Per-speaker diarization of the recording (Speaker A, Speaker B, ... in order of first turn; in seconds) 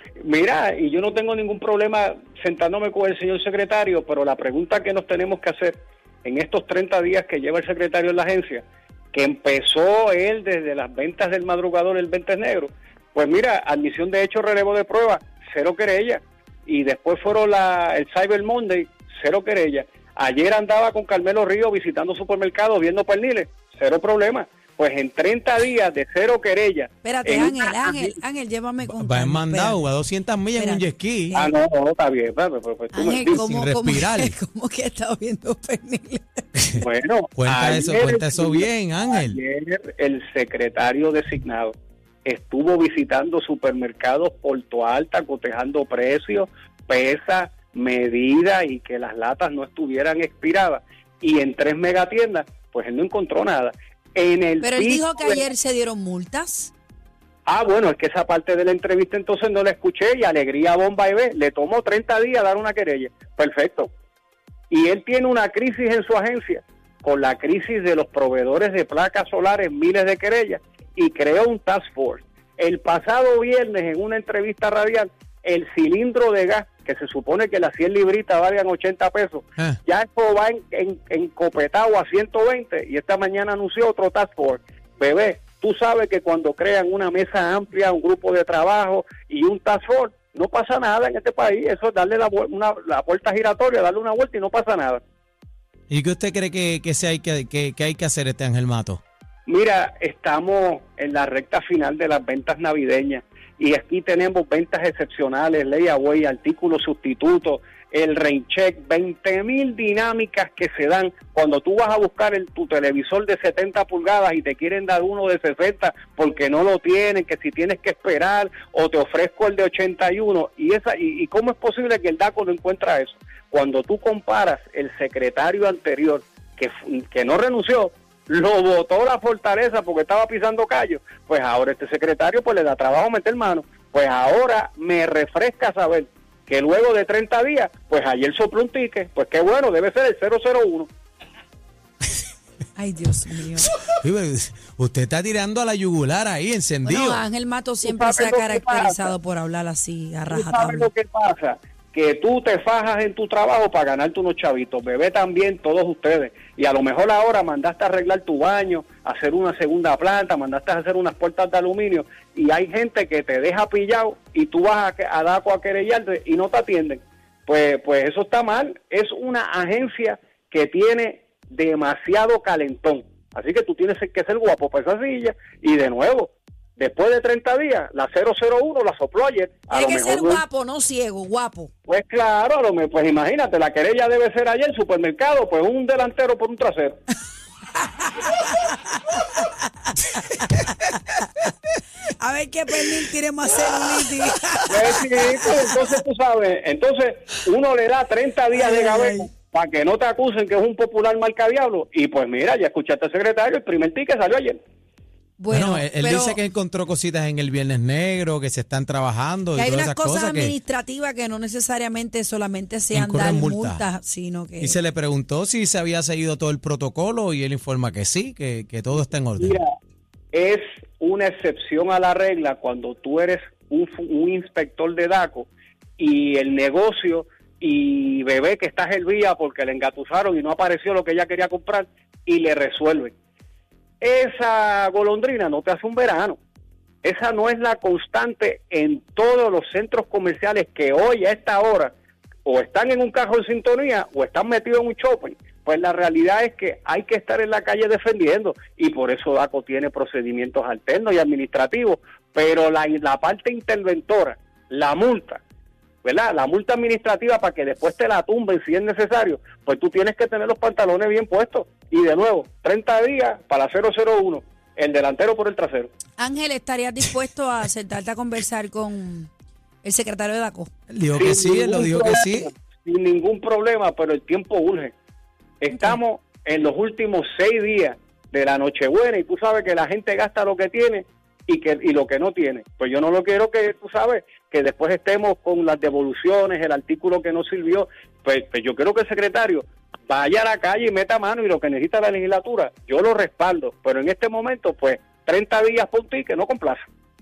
Speaker A: 0.2-28.1, 31.4-33.4, 36.7-41.7, 42.2-55.4, 57.5-63.9, 64.7-95.0, 99.5-140.9, 147.8-149.1, 150.3-180.4, 181.9-187.0, 194.7-204.6, 219.4-219.7, 220.3-233.1, 234.0-236.4, 237.0-241.9, 242.5-255.4, 256.0-265.9, 271.2-274.9, 275.6-296.9
Speaker B: 27.0-29.8, 30.6-31.5, 32.9-36.5, 54.6-56.7, 142.8-143.7, 146.9-150.9, 179.7-181.7, 187.9-191.0, 192.2-195.9, 198.5-199.3, 205.4-206.4, 209.6-214.8, 266.2-269.3, 269.8-270.7
Speaker C: 28.8-31.4, 33.2-34.4, 36.6-36.8, 37.4-39.4, 95.9-99.0, 143.8-147.2, 205.5-210.6, 212.9-213.8, 214.6-219.6, 270.9-272.5